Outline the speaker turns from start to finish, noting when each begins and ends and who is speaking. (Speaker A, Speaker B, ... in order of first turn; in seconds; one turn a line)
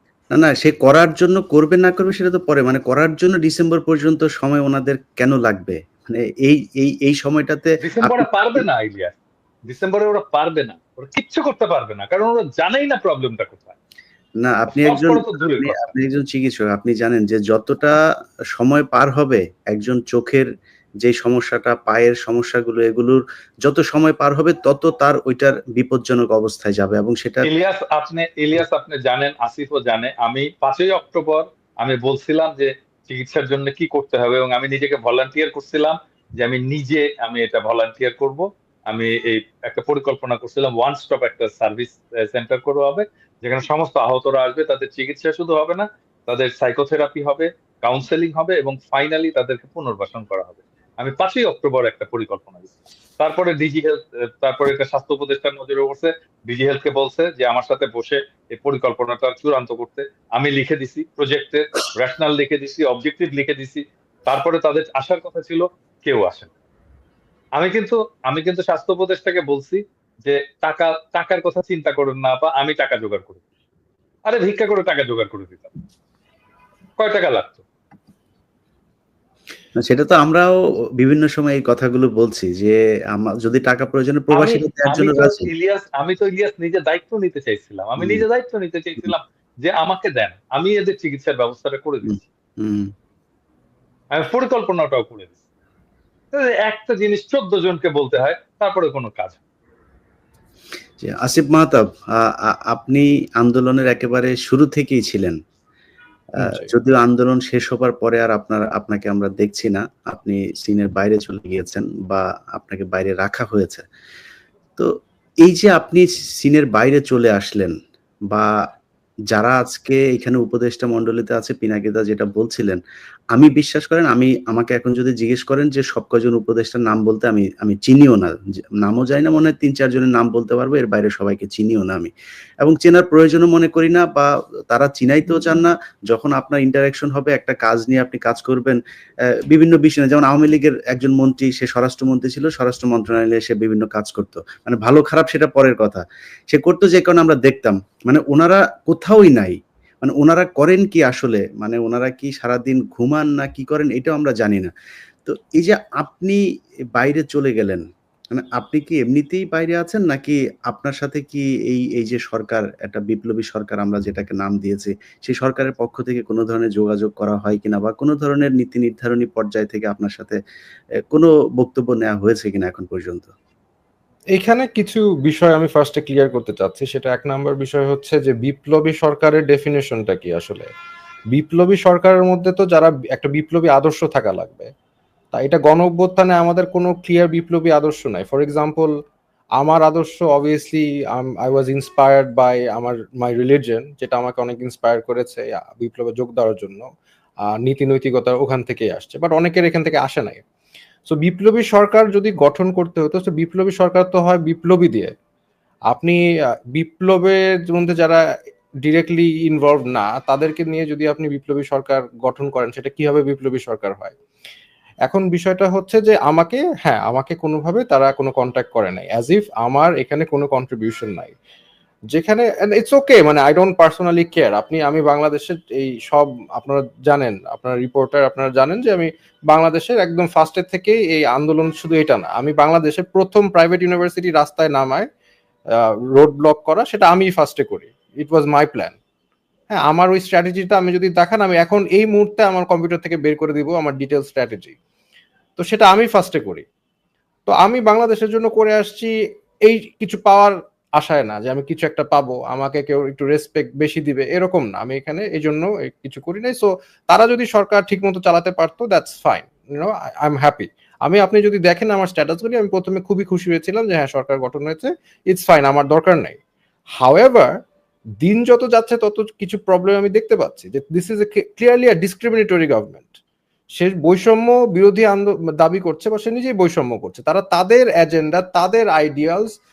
Speaker A: 0.3-8.6
Speaker B: 7.8-13.8
Speaker A: 14.4-18.0
Speaker B: 14.7-15.9
Speaker A: 18.6-20.5
Speaker A: 21.0-27.5
Speaker B: 27.5-66.5
Speaker B: 67.6-73.4
Speaker B: 74.3-75.7
Speaker B: 77.0-77.7
Speaker A: 79.8-85.5
Speaker B: 84.3-92.2
Speaker A: 88.0-88.2
Speaker A: 92.1-92.9
Speaker B: 94.2-95.4
Speaker B: 96.3-99.4
Speaker A: 101.0-105.4
Speaker C: 106.4-106.7
Speaker A: 106.4-113.8
Speaker A: 115.4-117.7
Speaker A: 119.3-122.8
Speaker A: 123.3-132.1
Speaker A: 132.6-138.8
Speaker A: 139.5-154.7
Speaker A: 155.2-156.4
Speaker A: 156.9-170.4
Speaker A: 171.1-173.3
Speaker C: 174.4-180.7
Speaker C: 181.3-184.7
Speaker C: 185.3-188.9
Speaker C: 189.6-196.8
Speaker C: 197.6-200.4
Speaker C: 201.1-205.1
Speaker C: 205.9-206.2
Speaker C: 206.8-208.2
Speaker C: 208.8-214.2
Speaker C: 215.1-221.4
Speaker C: 222.1-235.1
Speaker C: 236.1-239.0
Speaker C: 239.7-244.8
Speaker C: 245.6-246.7
Speaker C: 247.5-249.1
Speaker C: 249.7-266.4
Speaker C: 267.0-267.5
Speaker C: 268.2-273.2
Speaker C: 273.8-279.5